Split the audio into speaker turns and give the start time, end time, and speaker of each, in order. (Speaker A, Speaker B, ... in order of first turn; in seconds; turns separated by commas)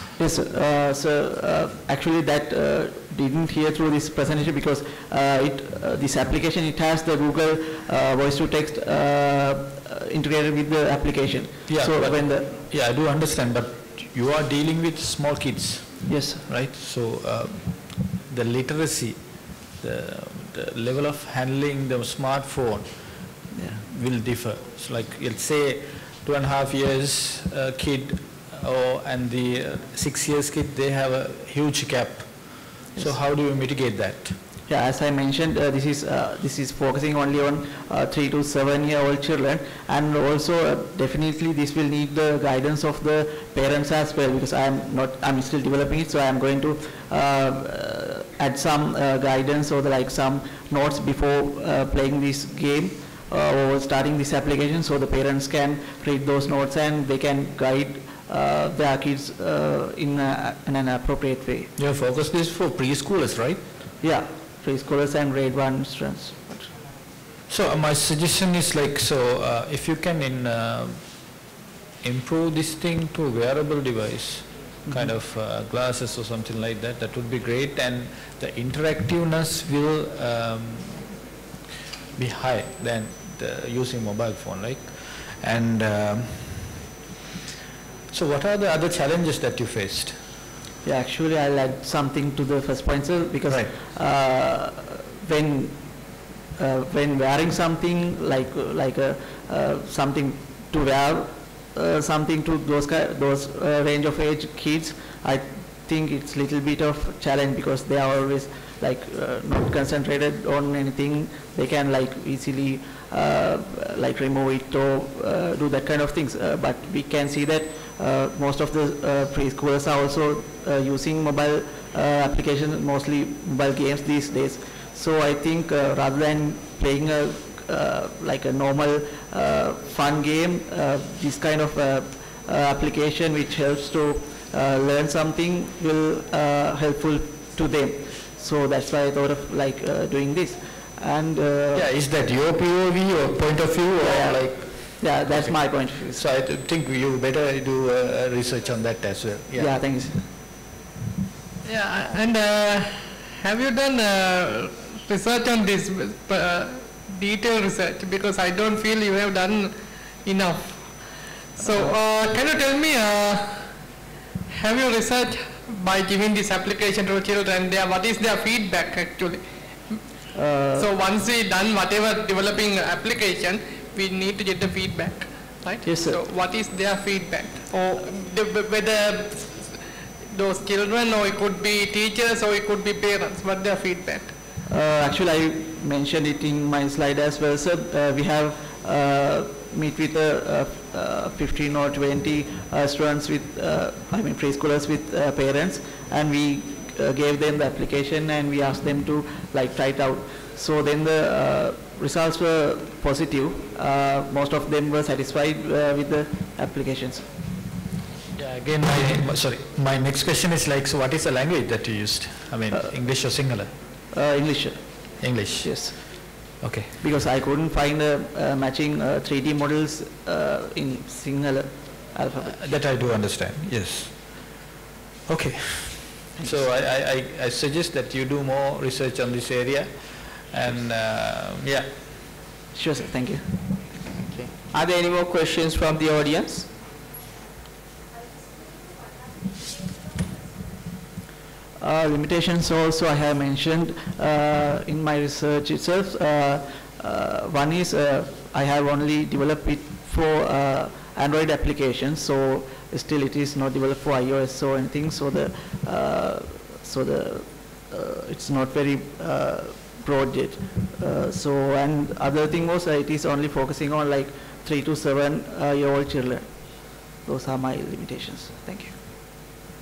Speaker A: 0.2-12.6, Speaker B: 11.7-23.1, Speaker A: 16.1-16.4, Speaker A: 23.5-23.8, Speaker B: 23.8-34.4, Speaker A: 34.7-61.7, Speaker B: 61.8-63.6, Speaker A: 64.0-66.6, Speaker B: 67.5-71.4, Speaker B: 72.0-81.1, Speaker B: 82.2-86.7, Speaker B: 88.1-90.2, Speaker A: 90.8-95.8, Speaker A: 96.6-141.9, Speaker B: 141.7-145.6, Speaker A: 144.0-144.4, Speaker A: 145.0-146.2, Speaker B: 146.2-149.8, Speaker A: 149.6-150.2, Speaker C: 151.6-163.7, Speaker A: 161.7-161.9, Speaker C: 164.5-170.0, Speaker A: 170.3-170.9, Speaker C: 170.8-184.3, Speaker A: 175.8-176.2, Speaker A: 184.7-207.3, Speaker B: 208.3-213.7, Speaker A: 214.1-215.0, Speaker B: 215.2-216.1, Speaker A: 215.6-215.9, Speaker B: 216.6-216.9, Speaker A: 217.0-222.6, Speaker B: 222.5-224.5, Speaker B: 225.3-231.9, Speaker A: 226.4-226.6, Speaker A: 232.7-233.4, Speaker D: 234.1-236.7, Speaker A: 241.8-266.5, Speaker A: 267.2-268.9